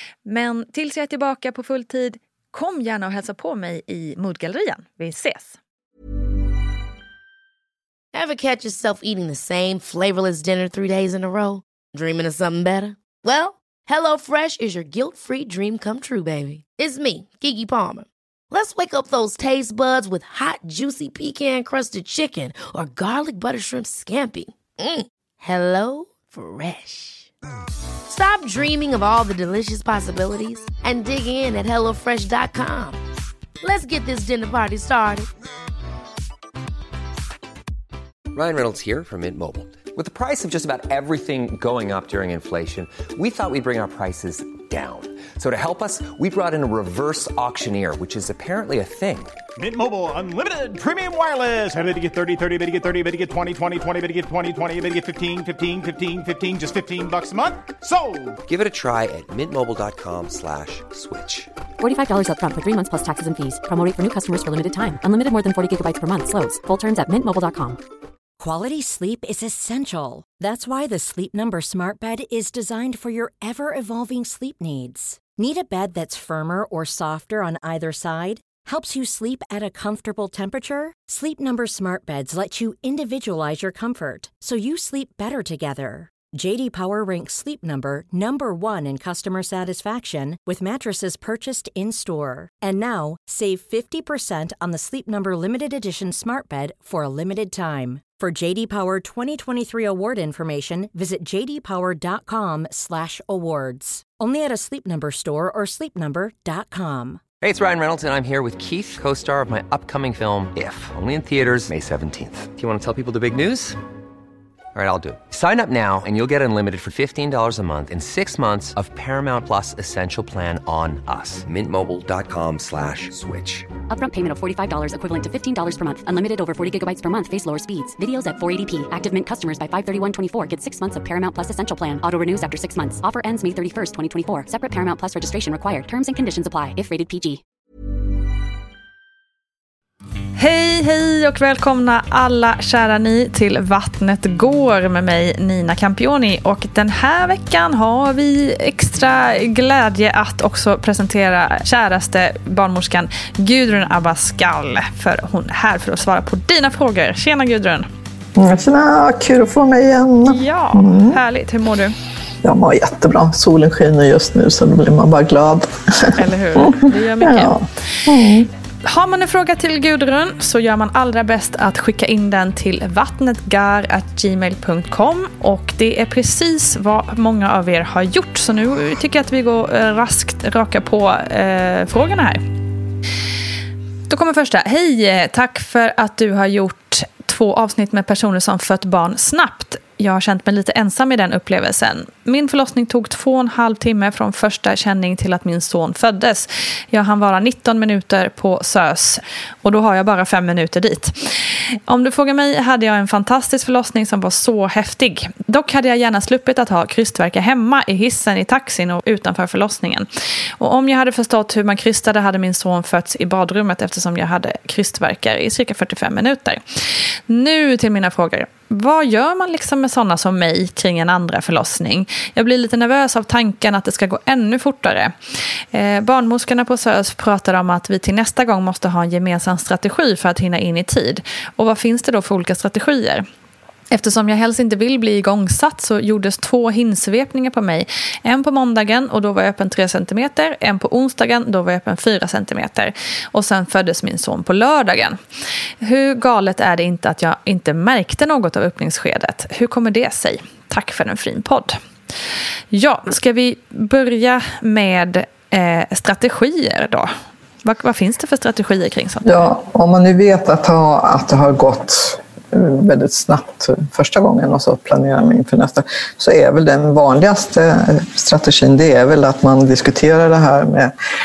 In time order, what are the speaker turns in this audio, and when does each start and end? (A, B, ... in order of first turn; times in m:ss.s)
0:00.2-0:05.6 A
0:08.1-0:27.3 B
0:28.1-0:33.0 B
0:33.6-0:35.3 B
0:38.3-0:49.3 C
0:49.6-0:58.4 D
0:58.5-1:01.5 C
1:01.8-1:07.8 E
1:08.4-1:47.2 F
1:47.4-1:53.8 C
1:54.8-2:03.7 C
2:03.9-2:17.4 E
2:20.4-2:37.9 A
2:38.3-2:41.2 G
2:40.3-2:41.9 A
2:42.4-2:48.5 G
2:46.1-2:47.5 A
2:48.8-3:02.4 A
3:04.1-3:30.1 A
3:30.6-3:36.6 A
3:37.3-3:45.1 A
3:45.7-3:53.2 A
3:53.9-4:05.2 A
4:05.8-4:11.8 A
4:12.7-4:19.5 A
4:19.2-4:30.9 G